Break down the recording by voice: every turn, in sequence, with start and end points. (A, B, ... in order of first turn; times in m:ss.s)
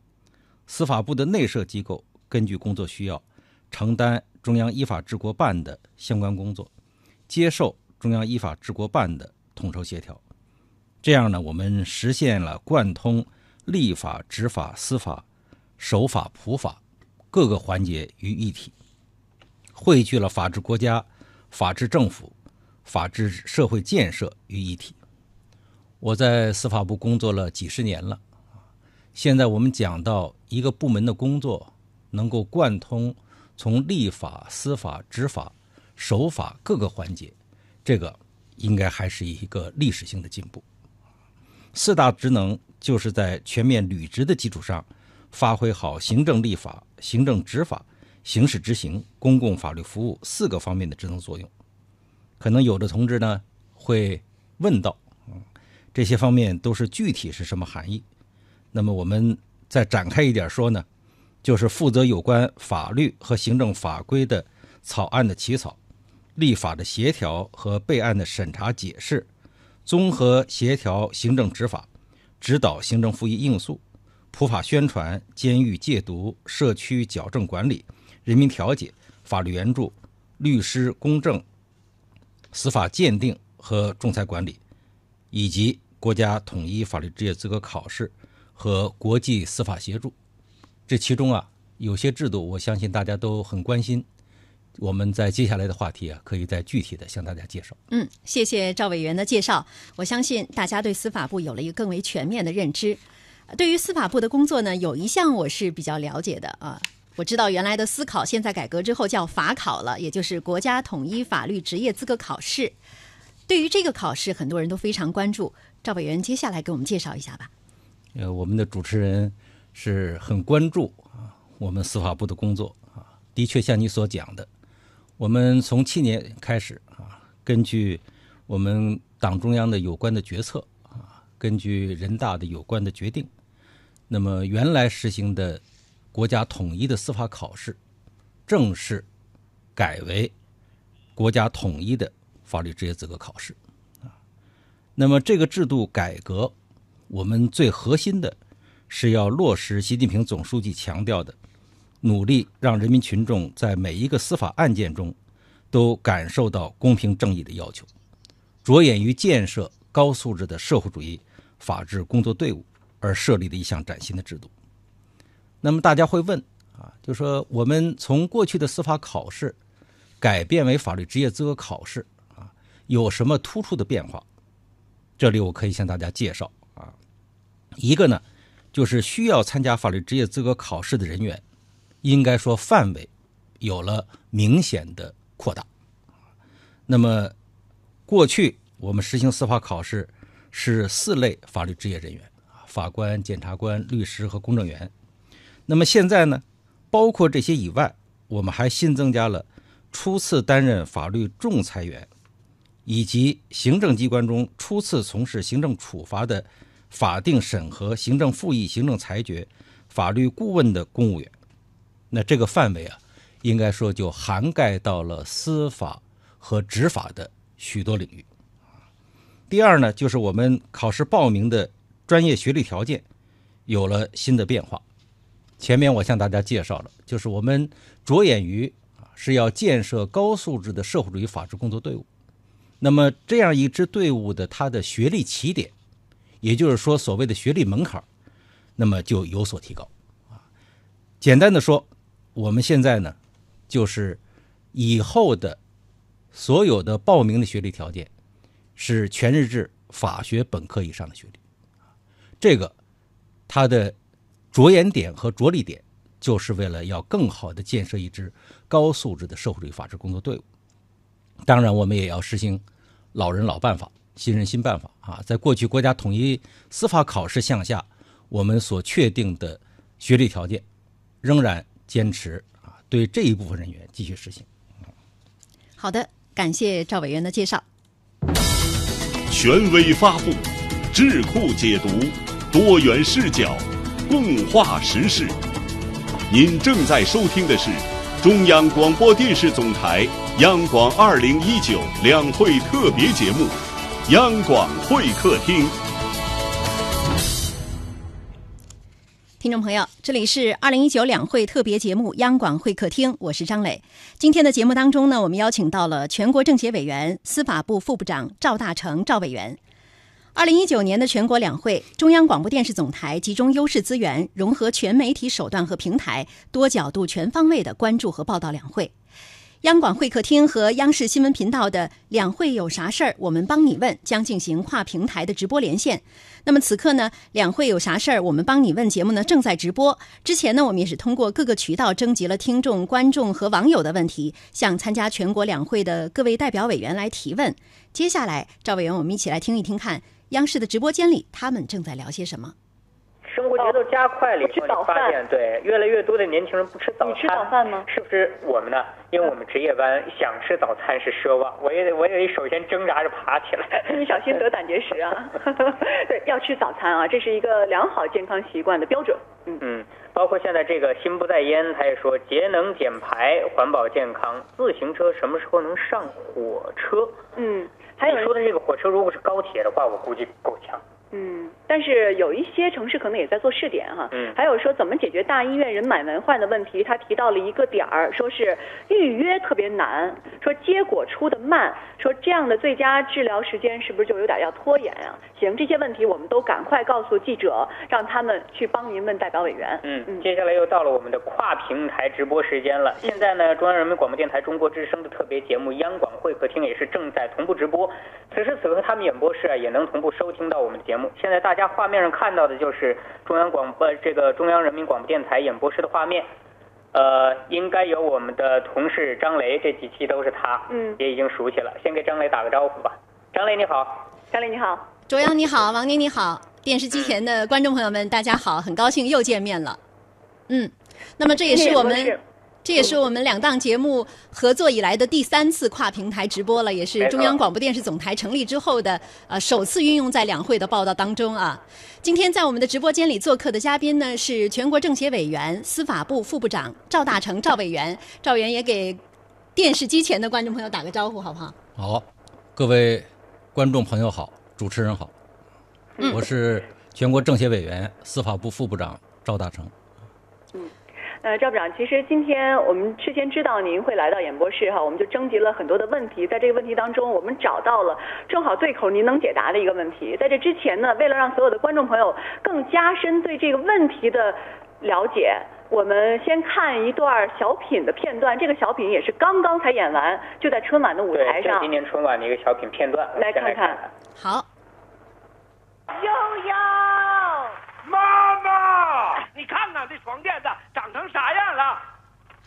0:00.7-0:06.7 A
0:07.3-0:10.2 A
0:11.0-0:15.2 A
0:15.8-0:16.8 A
0:17.3-0:18.7 A
0:19.7-0:22.3 A
0:22.8-0:25.0 A
0:26.0-0:28.2 A
0:29.1-0:40.6 A
0:41.7-0:51.5 A
0:52.4-0:55.4 A
0:55.9-0:58.0 A
0:58.7-1:00.8 A
1:01.4-1:05.8 A
1:06.4-1:09.3 A
1:09.8-1:11.9 A
1:12.4-1:21.4 A
1:22.5-1:24.6 A
1:25.3-1:30.1 A
1:30.9-1:34.0 A
1:34.8-1:37.8 A
1:37.9-1:52.7 B
1:53.5-1:57.5 B
1:58.1-2:04.5 A
2:05.2-2:13.3 A
2:14.1-2:15.6 A
2:16.1-2:17.8 A
2:18.5-2:19.0 A
2:19.8-2:20.3 A
2:21.2-2:23.6 A
2:25.0-2:26.5 A
2:27.1-2:28.4 A
2:28.9-2:31.4 A
2:32.0-2:35.2 A
2:35.7-2:37.9 A
2:38.6-2:44.5 A
2:45.6-2:49.6 A
2:50.2-2:54.2 A
2:55.2-2:57.0 A
2:57.8-3:01.4 A
3:02.0-3:03.1 A
3:03.6-3:05.7 A
3:06.9-3:07.3 A
3:08.1-3:14.9 A
3:15.7-3:22.1 A
3:22.8-3:31.3 A
3:32.1-3:38.2 A
3:39.5-3:43.0 A
3:43.7-3:44.8 A
3:45.6-3:52.0 A
3:52.8-3:55.7 A
3:56.4-3:58.0 A
3:58.8-4:00.4 A
4:01.2-4:03.2 A
4:03.7-4:04.2 A
4:04.7-4:05.6 A
4:06.3-4:08.1 A
4:08.8-4:11.4 A
4:12.4-4:12.7 A
4:13.5-4:13.9 A
4:14.5-4:20.4 A
4:21.4-4:30.6 A
4:31.2-4:34.4 A
4:35.8-4:37.6 B
4:39.3-4:45.4 C
4:46.3-4:53.6 C
4:54.1-4:55.8 C
4:59.4-5:09.6 B
5:10.3-5:18.9 B
5:19.6-5:42.5 B
5:43.3-5:54.4 D
5:43.6-5:43.8 E
5:44.4-5:45.2 E
5:47.0-5:47.9 E
5:53.7-5:59.6 E
5:59.6-6:07.2 D
6:07.4-6:08.3 E
6:08.0-6:10.8 D
6:11.1-6:30.3 E
6:29.8-6:46.3 D
6:46.9-6:54.0 D
6:50.7-6:51.0 E
6:54.3-6:54.9 E
6:55.1-6:59.8 B
7:00.5-7:19.0 B
7:01.5-7:02.2 E
7:07.0-7:07.4 D
7:19.5-7:21.6 B
7:21.8-7:25.1 A
7:26.0-7:26.2 E
7:26.0-7:29.7 A
7:31.2-7:51.7 E
7:51.1-7:53.9 D
7:53.1-7:53.8 E
7:54.2-7:54.5 B
7:56.2-7:56.5 F
7:57.8-8:01.8 F